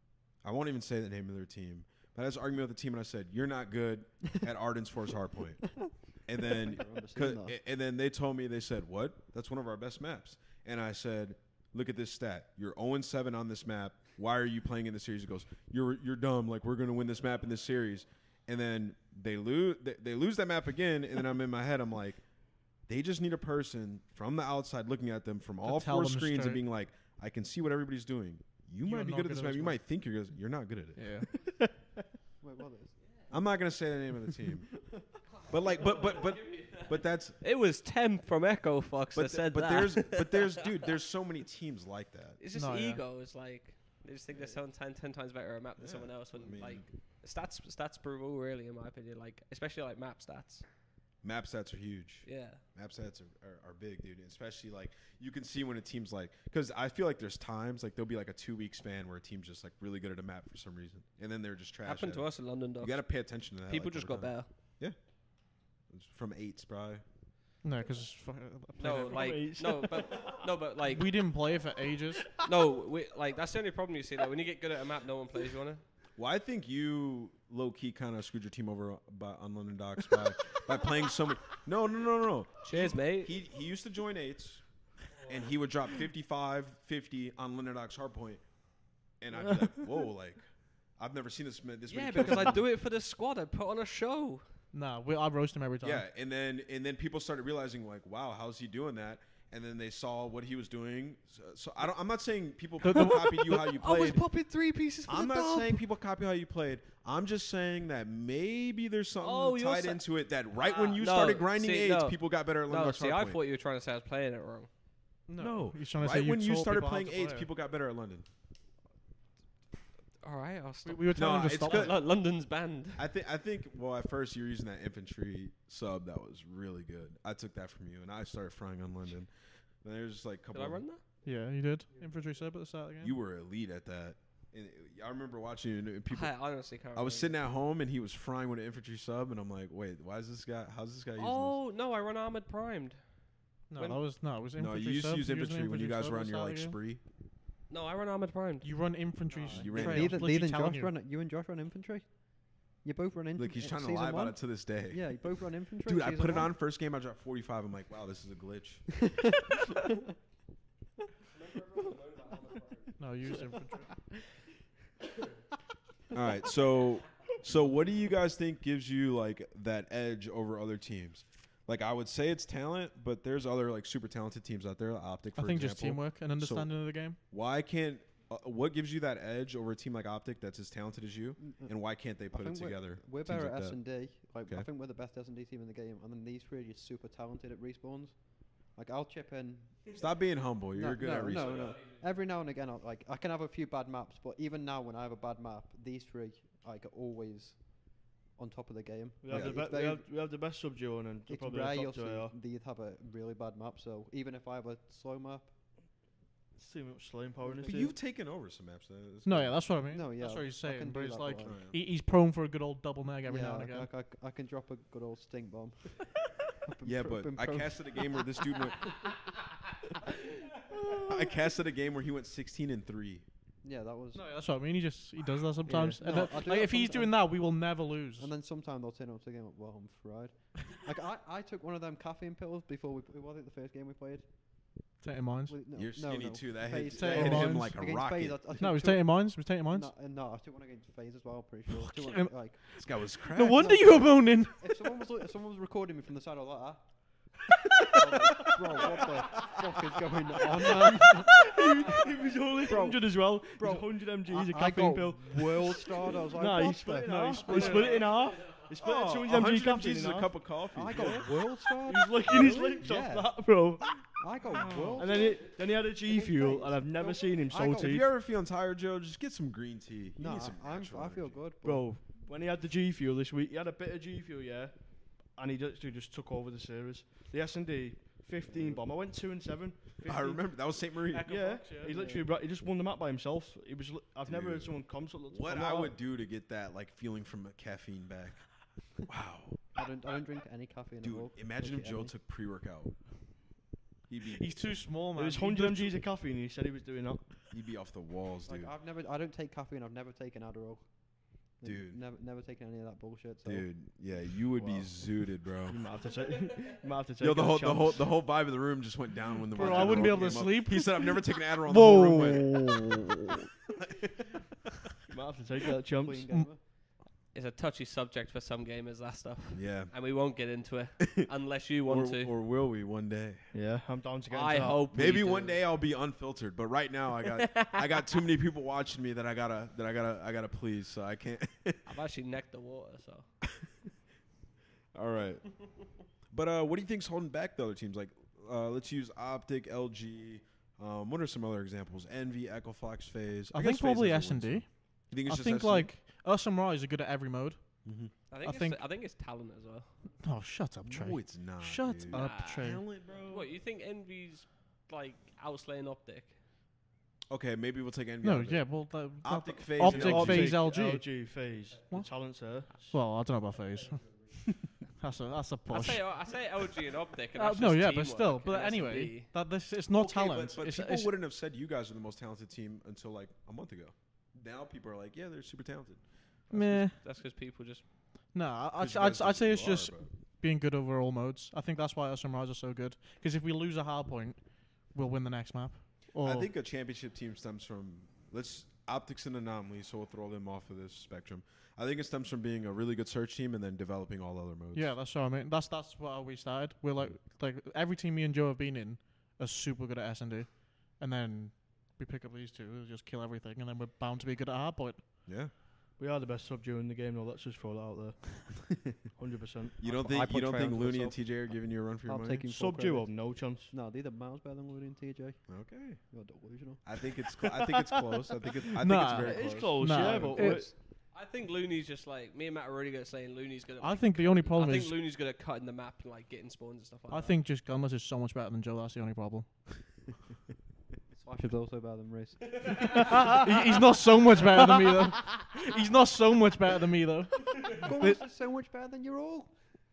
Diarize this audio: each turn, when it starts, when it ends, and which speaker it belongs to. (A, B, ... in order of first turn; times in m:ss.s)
0:00.4-0:22.2 A
0:06.4-0:07.6 B
0:22.9-0:31.2 A
0:25.6-0:26.6 C
0:28.8-0:29.8 C
0:31.0-0:31.5 C
0:32.4-0:33.0 B
0:33.3-0:34.7 A
0:35.4-0:40.8 D
0:35.5-0:37.4 A
0:39.2-0:42.4 A
0:42.4-0:50.7 D
0:42.6-0:43.0 C
0:45.8-0:46.9 A
0:51.2-1:05.0 A
0:52.2-0:52.6 D
1:01.8-1:03.1 D
1:03.6-1:04.5 D
1:05.9-1:07.0 A
1:07.6-1:09.3 C
1:08.8-1:11.2 D
1:08.8-1:10.5 E
1:10.8-1:12.3 C
1:12.4-1:15.8 D
1:16.2-1:24.6 A
1:22.6-1:23.4 D
1:25.2-1:28.4 A
1:29.2-1:32.6 A
1:29.4-1:30.1 E
1:31.9-1:34.5 D
1:34.7-1:36.0 C
1:35.8-1:44.2 A
1:42.8-1:43.7 C
1:42.9-1:45.8 D
1:45.1-1:53.4 A
1:49.2-1:54.7 D
1:55.3-1:57.5 C
1:55.4-1:58.3 A
2:00.2-2:03.0 D
2:00.8-2:02.0 C
2:01.1-2:02.0 A
2:03.0-2:10.8 A
2:10.5-2:11.0 D
2:11.2-2:13.2 C
2:13.0-2:21.6 A
2:16.1-2:17.4 D
2:21.2-2:23.0 D
2:23.7-2:26.8 C
2:23.7-2:24.0 D
2:24.6-2:27.0 A
2:27.7-2:28.7 D
2:28.6-2:30.9 C
2:29.3-2:36.5 B
2:29.5-2:30.3 A
2:33.4-2:35.2 A
2:35.8-2:39.0 A
2:39.5-2:39.8 B
2:41.3-2:43.1 D
2:43.0-2:44.0 C
2:46.1-3:03.8 A
2:55.4-2:57.2 C
3:01.4-3:01.7 B
3:02.3-3:10.0 B
3:09.9-3:11.8 A
3:10.7-3:20.1 B
3:11.2-3:12.0 D
3:19.2-3:22.3 E
3:19.3-3:19.6 A
3:21.3-3:25.5 B
3:26.6-3:27.9 E
3:27.4-3:27.9 B
3:27.6-3:29.7 A
3:29.2-3:33.9 C
3:29.9-3:31.6 B
3:31.4-3:31.8 A
3:33.3-3:38.4 B
3:36.8-3:39.1 A
3:41.0-3:43.2 A
3:43.6-3:44.2 B
3:44.1-3:48.3 C
3:45.7-3:46.0 E
3:46.0-3:47.2 B
3:48.2-3:54.3 B
3:55.0-3:55.6 C
3:55.5-4:02.6 B
3:55.7-3:58.4 A
3:56.9-3:57.8 C
3:58.6-3:59.9 C
4:01.7-4:05.0 C
4:02.8-4:03.9 A
4:03.5-4:06.8 B
4:07.4-4:18.1 B
4:07.8-4:08.0 C
4:10.5-4:11.2 C
4:11.2-4:28.1 E
4:17.4-4:18.1 C
4:18.7-4:21.4 A
4:20.7-4:28.1 B
4:27.8-4:31.4 A
4:30.2-4:31.9 B
4:31.6-4:40.4 E
4:40.0-4:41.3 A
4:41.1-4:42.0 C
4:41.2-4:45.9 E
4:41.9-4:42.2 B
4:44.3-4:44.8 A
4:45.3-4:48.4 A
4:49.1-4:49.6 A
4:49.7-4:52.1 B
4:51.0-4:52.9 A
4:54.1-4:54.7 A
4:54.2-4:56.0 C
4:55.2-4:57.4 E
4:57.5-4:58.7 A
4:58.5-5:03.7 B
5:01.6-5:02.0 A
5:03.4-5:05.8 A
5:04.6-5:04.9 E
5:05.6-5:08.2 E
5:07.2-5:12.9 A
5:09.5-5:13.5 C
5:09.6-5:10.0 E
5:13.8-5:14.3 A
5:15.1-5:16.3 E
5:16.0-5:16.6 B
5:17.3-5:22.3 D
5:19.5-5:19.9 A
5:21.0-5:21.3 A
5:21.9-5:23.5 A
5:23.5-5:25.2 E
5:24.3-5:25.6 D
5:24.9-5:31.9 A
5:27.4-5:28.1 D
5:31.9-5:33.3 D
5:34.9-5:35.5 A
5:36.3-5:45.9 A
5:43.5-5:47.6 C
5:47.8-5:48.1 A
5:48.3-5:49.9 D
5:48.4-5:48.8 C
5:50.2-5:52.8 C
5:50.8-5:53.5 A
5:52.1-5:56.4 D
5:57.3-6:00.6 A
5:58.2-6:01.3 C
5:59.8-6:03.0 E
6:01.9-6:06.4 C
6:05.7-6:09.3 D
6:07.4-6:11.1 C
6:09.9-6:16.8 A
6:16.5-6:17.0 C
6:16.5-6:17.8 D
6:18.3-6:26.5 C
6:18.8-6:20.1 A
6:26.2-6:35.0 A
6:34.7-6:45.3 C
6:45.3-6:45.5 A
6:46.0-6:49.8 E
6:49.8-6:52.4 A
6:49.8-6:57.2 B
6:52.4-6:53.7 E
6:55.5-6:56.0 A
6:56.8-7:00.3 A
6:58.8-7:00.7 C
6:59.1-7:00.7 E
7:01.1-7:07.4 D
7:03.8-7:05.0 C
7:07.1-7:09.5 C
7:11.1-7:13.4 B
7:13.2-7:18.2 C
7:17.7-7:19.5 B